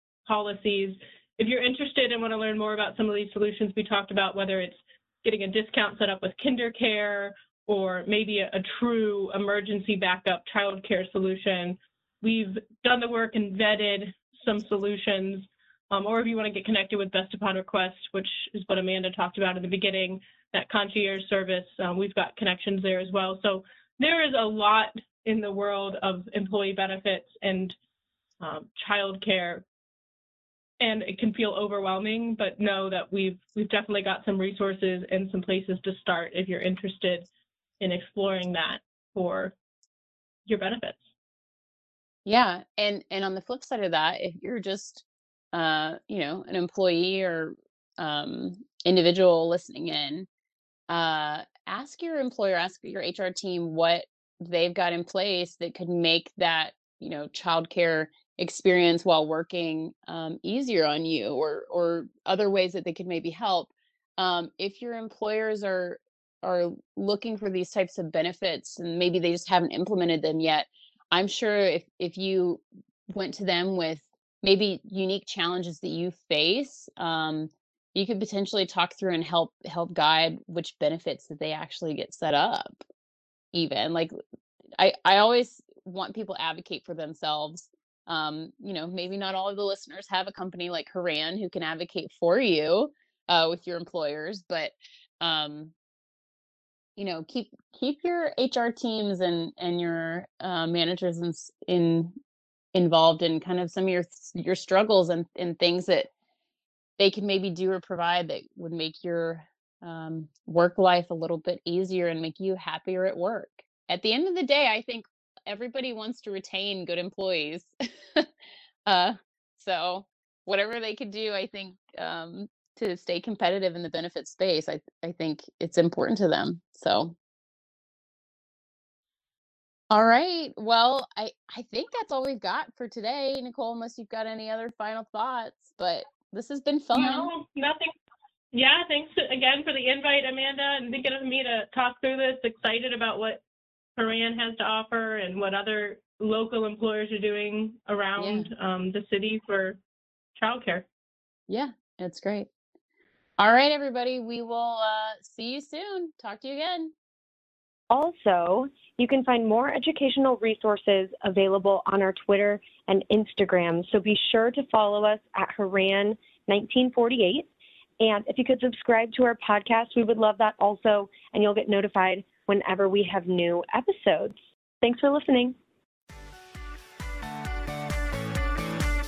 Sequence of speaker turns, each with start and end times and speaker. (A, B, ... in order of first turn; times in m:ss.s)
0:00.2-0:27.8 A
0:28.4-0:29.6 A
0:30.8-0:37.3 A
0:37.8-0:39.5 A
0:40.4-0:41.0 A
0:42.2-0:50.3 B
0:50.9-1:22.8 B
1:23.5-1:24.1 B
1:24.8-1:35.7 B
1:37.0-1:42.1 B
1:42.7-1:46.1 B
1:47.0-1:58.3 B
1:58.8-2:07.1 B
2:09.9-2:17.3 B
2:16.9-2:17.9 A
2:18.5-2:23.4 A
2:24.0-2:29.8 A
2:28.2-2:28.5 B
2:30.4-2:30.8 A
2:31.5-2:32.5 B
2:33.4-2:36.9 B
2:37.9-2:55.5 C